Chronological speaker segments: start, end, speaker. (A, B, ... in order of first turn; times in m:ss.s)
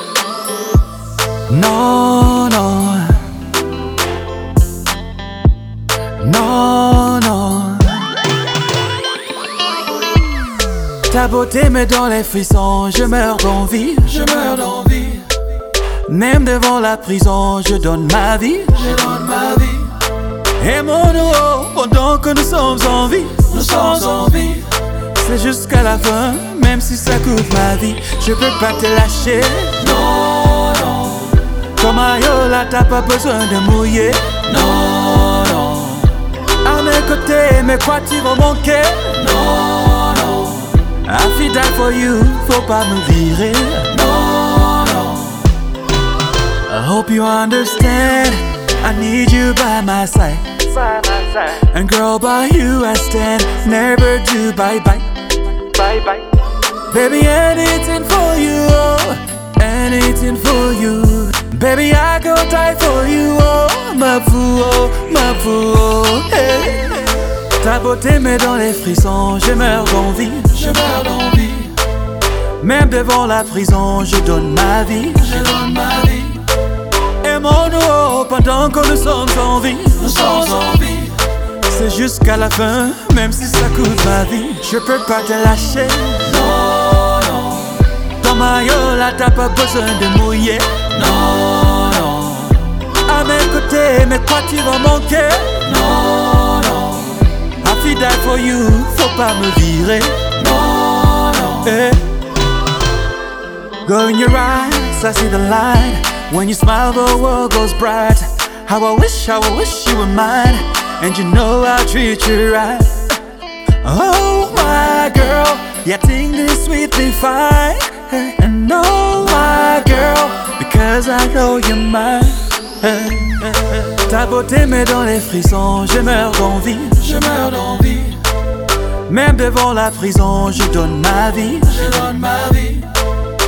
0:01.5-0:03.3 A
0:06.2-0:08.2 A
0:11.1-0:15.3 A
0:16.1-0:20.0 A
0:20.6-0:31.2 A
0:31.7-0:45.1 A
0:46.7-1:11.8 A
1:12.6-1:16.5 A
1:17.2-1:42.2 A
1:43.8-1:53.2 A
1:53.8-2:08.2 A
2:09.1-2:12.9 A